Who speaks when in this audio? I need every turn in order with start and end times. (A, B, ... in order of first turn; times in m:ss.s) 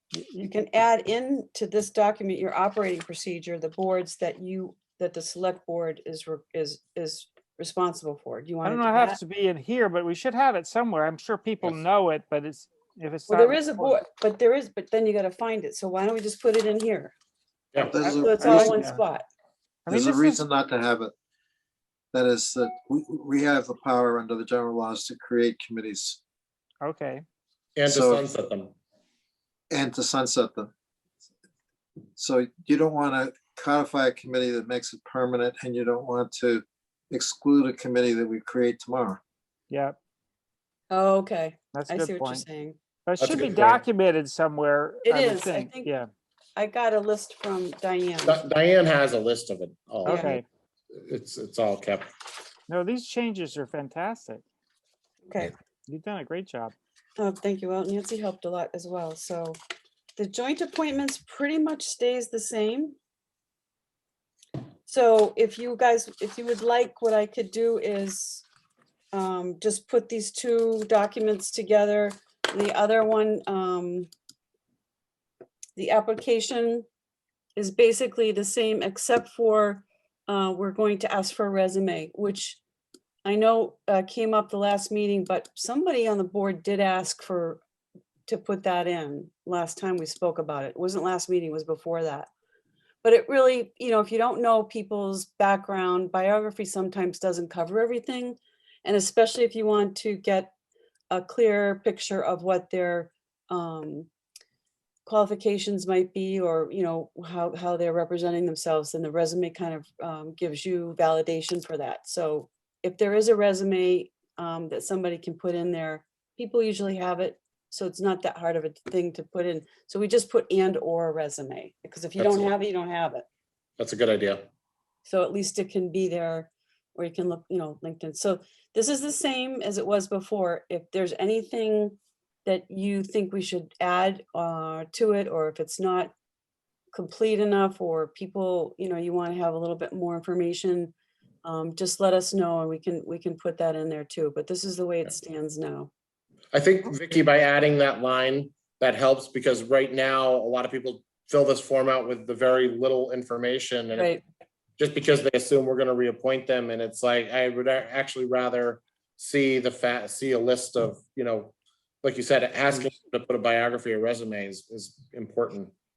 0:00.1-0:00.5 A
0:00.4-0:09.2 B
0:08.6-0:14.0 A
0:13.3-0:17.1 B
0:17.8-0:19.0 A
0:17.8-0:18.8 C
0:18.0-0:19.2 B
0:19.8-0:20.4 A
0:19.9-0:21.1 C
0:22.1-0:26.2 C
0:26.8-0:27.2 A
0:27.8-0:28.7 D
0:27.9-0:28.2 C
0:29.7-0:30.7 C
0:32.2-0:39.2 C
0:39.7-0:40.0 A
0:40.9-0:42.8 B
0:41.7-0:42.4 A
0:43.0-0:46.1 A
0:43.2-0:43.8 D
0:45.0-0:45.9 B
0:46.6-0:48.4 B
0:48.2-0:50.4 D
0:50.0-0:50.4 B
0:50.0-0:50.4 A
0:51.0-0:52.1 D
0:52.7-0:54.4 A
0:55.2-0:55.5 B
0:55.9-0:56.7 A
0:57.2-0:59.6 B
1:00.2-1:03.0 B
1:04.9-1:08.4 B
1:09.1-1:14.1 B
1:15.8-1:16.8 B
1:17.6-1:22.6 B
1:23.2-1:27.6 B
1:28.3-1:32.3 B
1:33.0-1:40.5 B
1:41.1-1:44.1 B
1:45.0-2:03.2 B
2:02.2-2:02.5 D
2:03.8-2:04.4 D
2:05.0-2:16.1 B
2:16.9-2:20.9 B
2:21.4-2:25.9 B
2:26.5-2:34.1 D
2:34.0-2:34.2 B
2:34.8-2:45.7 D